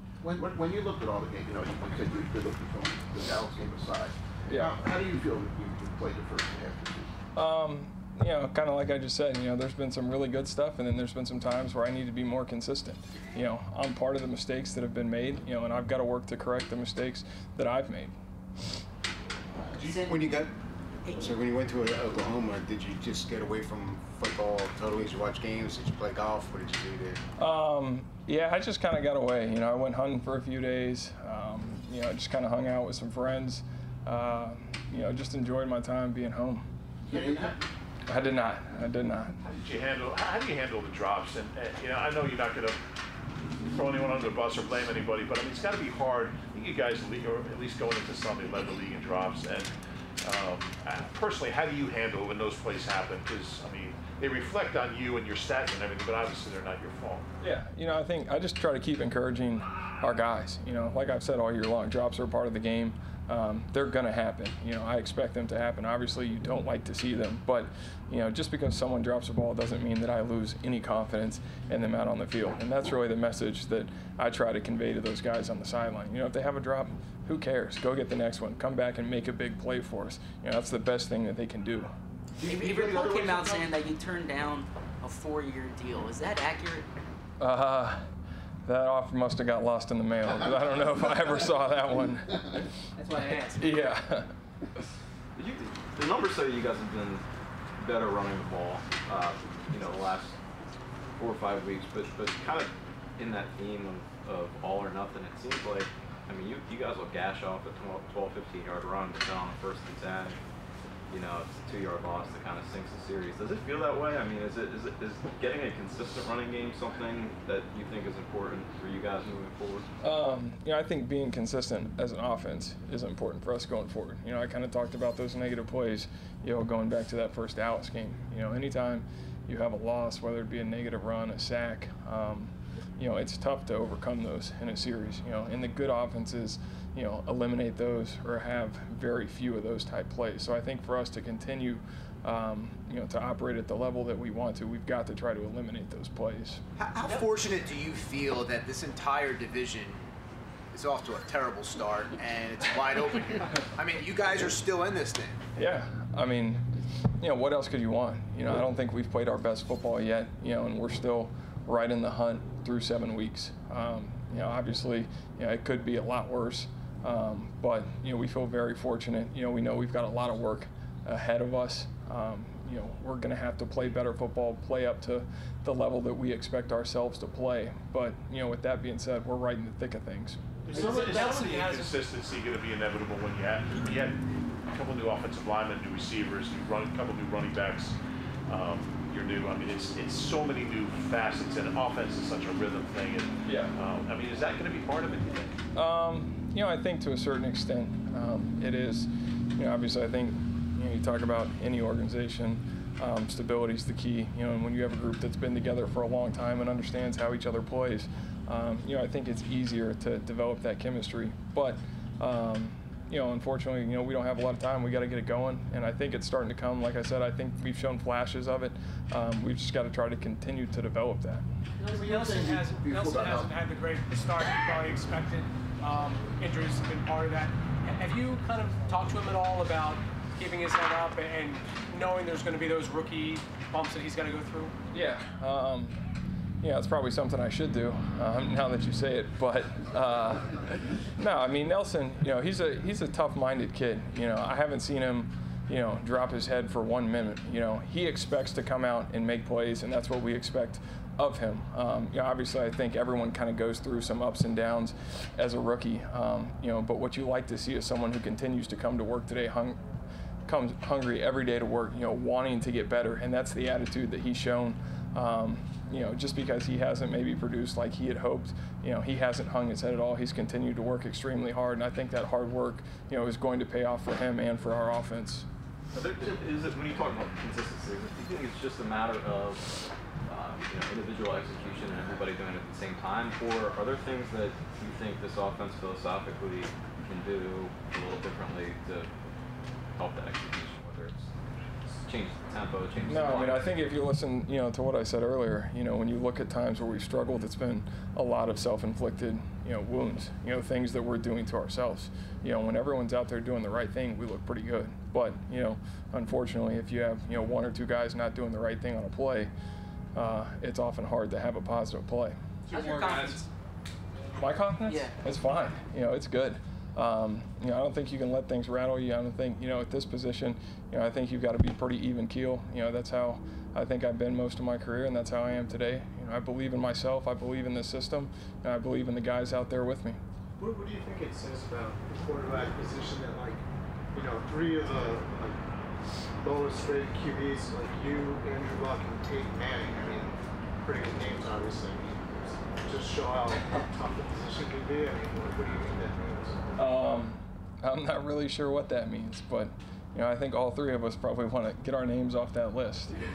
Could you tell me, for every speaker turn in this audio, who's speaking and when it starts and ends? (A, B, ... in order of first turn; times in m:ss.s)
0:00.2-0:07.1 A
0:04.5-0:04.8 B
0:07.3-0:18.1 B
0:19.7-0:20.5 C
0:19.8-0:20.2 D
0:21.1-0:27.2 C
0:27.4-0:36.7 B
0:37.1-0:37.5 C
0:38.1-0:39.4 B
0:39.4-0:42.8 E
0:43.7-0:49.7 E
0:50.2-0:57.2 E
0:57.4-1:21.9 B
1:22.4-1:23.7 A
1:22.4-1:26.8 D
1:27.4-1:28.0 B
1:28.6-1:32.7 B
1:33.0-1:33.9 D
1:33.5-1:34.3 B
1:35.3-1:37.2 F
1:37.8-1:40.4 F
1:41.2-1:50.4 F
1:51.1-1:59.9 F
2:00.0-2:26.6 B
2:26.8-2:30.0 G
2:30.7-2:35.4 G
2:35.6-2:36.6 B
2:37.2-3:00.4 B
3:00.6-3:04.2 E
3:00.7-3:02.0 H
3:04.7-3:08.0 E
3:08.5-3:15.5 E
3:13.4-3:13.7 B
3:15.7-3:41.4 B
3:41.8-3:54.7 H
3:41.9-3:42.8 I
3:54.9-3:56.0 B
3:56.6-4:19.8 B
4:20.5-4:35.5 B
4:35.9-4:39.7 F
4:40.3-4:49.1 F
4:50.0-4:51.3 F
4:52.0-4:53.6 F
4:53.0-5:09.5 B
5:10.1-5:12.4 B
5:12.7-5:13.4 D
5:14.4-5:30.2 B
5:14.8-5:15.1 D
5:30.6-5:35.6 I
5:36.4-5:46.7 I
5:46.8-5:53.2 B